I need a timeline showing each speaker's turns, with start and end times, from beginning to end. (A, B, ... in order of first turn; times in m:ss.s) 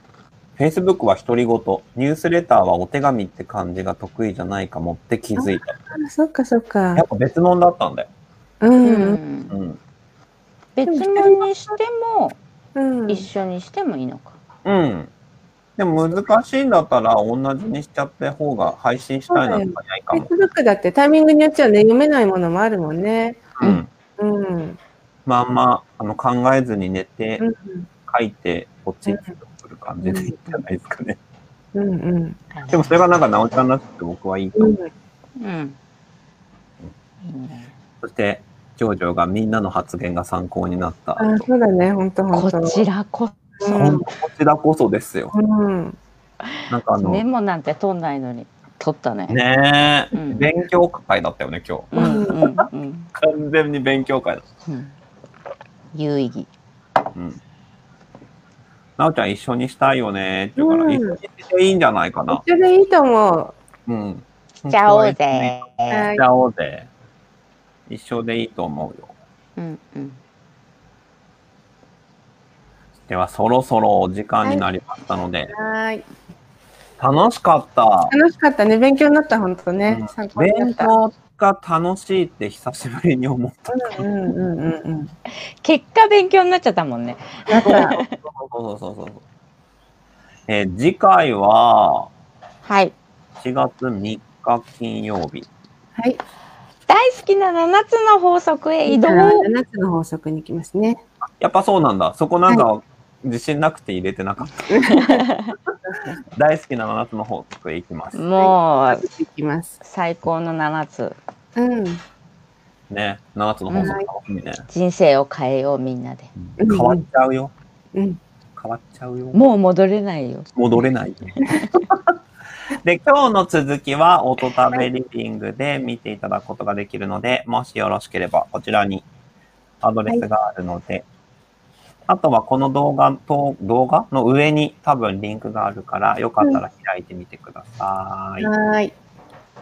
0:00.6-0:05.8 A
0:05.4-0:07.0 B
0:06.9-0:08.1 A
0:08.6-0:09.2 B
0:08.8-0:09.5 C
0:09.5-0:09.8 A
0:10.8-0:12.4 C
0:10.8-0:11.7 B
0:12.7-0:13.3 B
0:13.1-0:14.4 C
0:14.6-0:15.1 A
0:15.8-0:20.3 A
0:19.3-0:23.5 B
0:23.6-0:23.9 A
0:24.2-0:24.8 B
0:25.2-0:27.4 A
0:27.4-0:27.9 B
0:28.1-0:31.2 A
0:29.1-0:29.4 B
0:30.0-0:30.3 B
0:31.7-0:32.4 B
0:32.5-0:33.0 C
0:32.7-0:34.7 A
0:34.6-0:34.9 B
0:35.4-0:35.8 C
0:37.2-0:37.8 C
0:38.0-0:41.2 A
0:41.2-0:42.8 B
0:42.3-0:43.4 C
0:43.6-0:44.0 B
0:43.6-0:45.3 A
0:45.3-0:46.0 B
0:46.7-0:47.2 A
0:47.0-0:49.4 C
0:49.3-0:54.4 A
0:50.1-0:50.5 C
0:51.9-0:53.1 C
0:51.9-0:52.4 B
0:54.6-0:54.9 C
0:55.9-0:56.5 C
0:57.1-0:57.4 A
0:59.0-1:02.4 A
1:00.6-1:01.2 B
1:02.3-1:03.6 B
1:03.8-1:06.9 A
1:04.7-1:06.1 C
1:05.9-1:06.2 B
1:07.9-1:09.1 A
1:09.6-1:10.2 C
1:13.1-1:15.5 A
1:15.5-1:16.0 B
1:17.0-1:18.1 A
1:18.1-1:20.9 B
1:19.9-1:24.0 A
1:23.7-1:25.1 B
1:25.6-1:28.2 C
1:27.5-1:27.9 B
1:27.6-1:29.2 A
1:30.5-1:32.1 A
1:32.6-1:32.9 C
1:33.4-1:35.5 A
1:36.9-1:39.5 C
1:38.9-1:41.0 B
1:41.4-1:44.5 A
1:44.7-1:45.2 B
1:44.9-1:45.5 C
1:45.9-1:46.2 B
1:46.3-1:48.2 A
1:48.1-1:49.0 C
1:48.4-1:49.8 B
1:49.8-1:51.2 C
1:51.6-1:52.0 B
1:52.9-1:54.6 A
1:53.7-1:54.0 C
1:53.8-1:54.1 B
1:54.7-1:56.3 C
1:56.4-1:57.5 A
1:56.6-1:57.0 B
1:57.9-1:58.2 B
1:58.6-1:59.4 A
1:59.3-2:00.5 C
2:00.5-2:02.1 A
2:01.4-2:01.7 C
2:02.7-2:09.0 A
2:09.8-2:11.0 A
2:12.1-2:18.5 A
2:18.4-2:18.9 B